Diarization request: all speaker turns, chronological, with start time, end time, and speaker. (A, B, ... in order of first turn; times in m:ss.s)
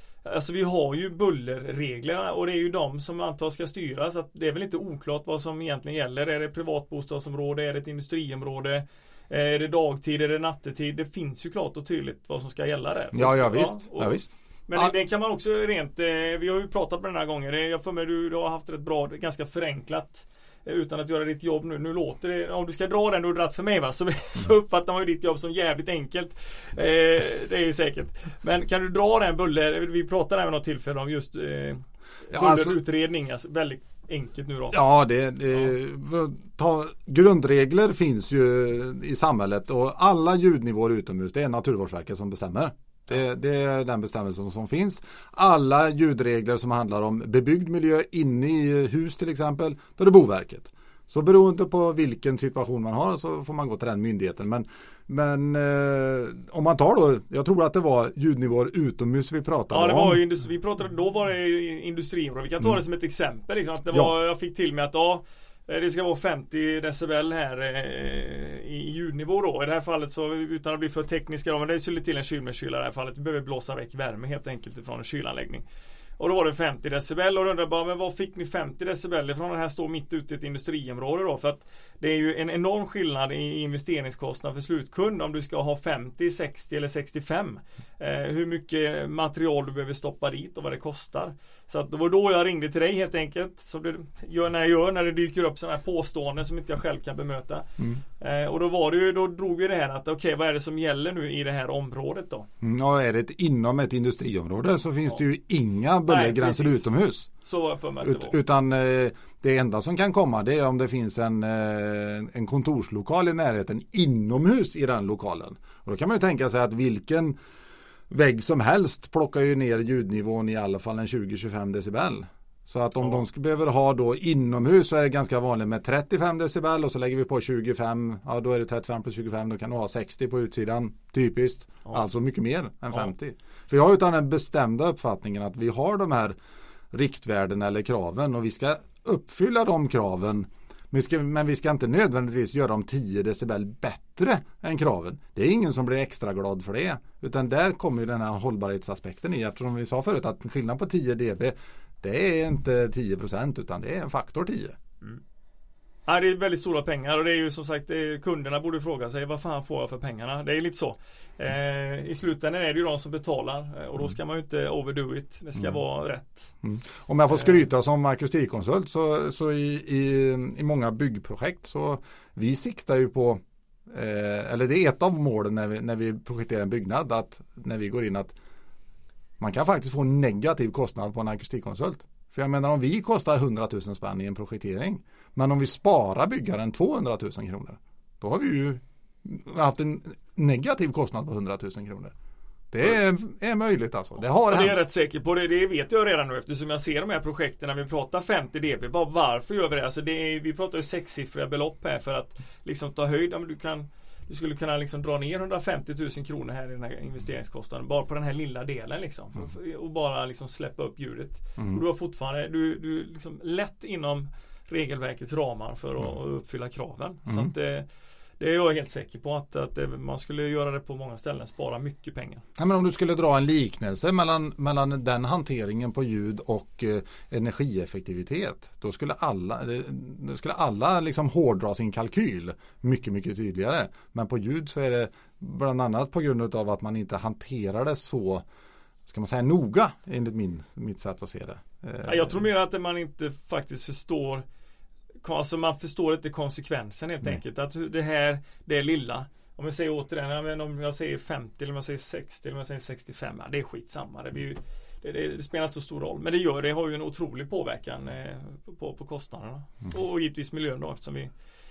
0:00.2-0:34.8 A
0:13.1-0:14.9 B
0:32.3-0:32.8 B
0:34.7-1:00.2 B
0:59.7-1:15.6 A
1:16.2-1:42.5 A
1:42.6-1:47.3 B
1:46.1-1:46.9 A
1:47.4-1:48.4 A
1:48.0-1:57.3 B
1:58.1-2:16.3 B
2:16.9-2:34.8 B
2:36.1-2:46.5 A
2:46.6-2:58.4 B
2:59.4-3:12.1 B
3:12.7-3:14.8 B
3:14.5-3:37.9 A
3:38.4-3:42.4 A
3:42.6-3:58.4 B
3:59.0-4:02.4 B
4:02.0-4:04.4 A
4:05.2-4:21.3 A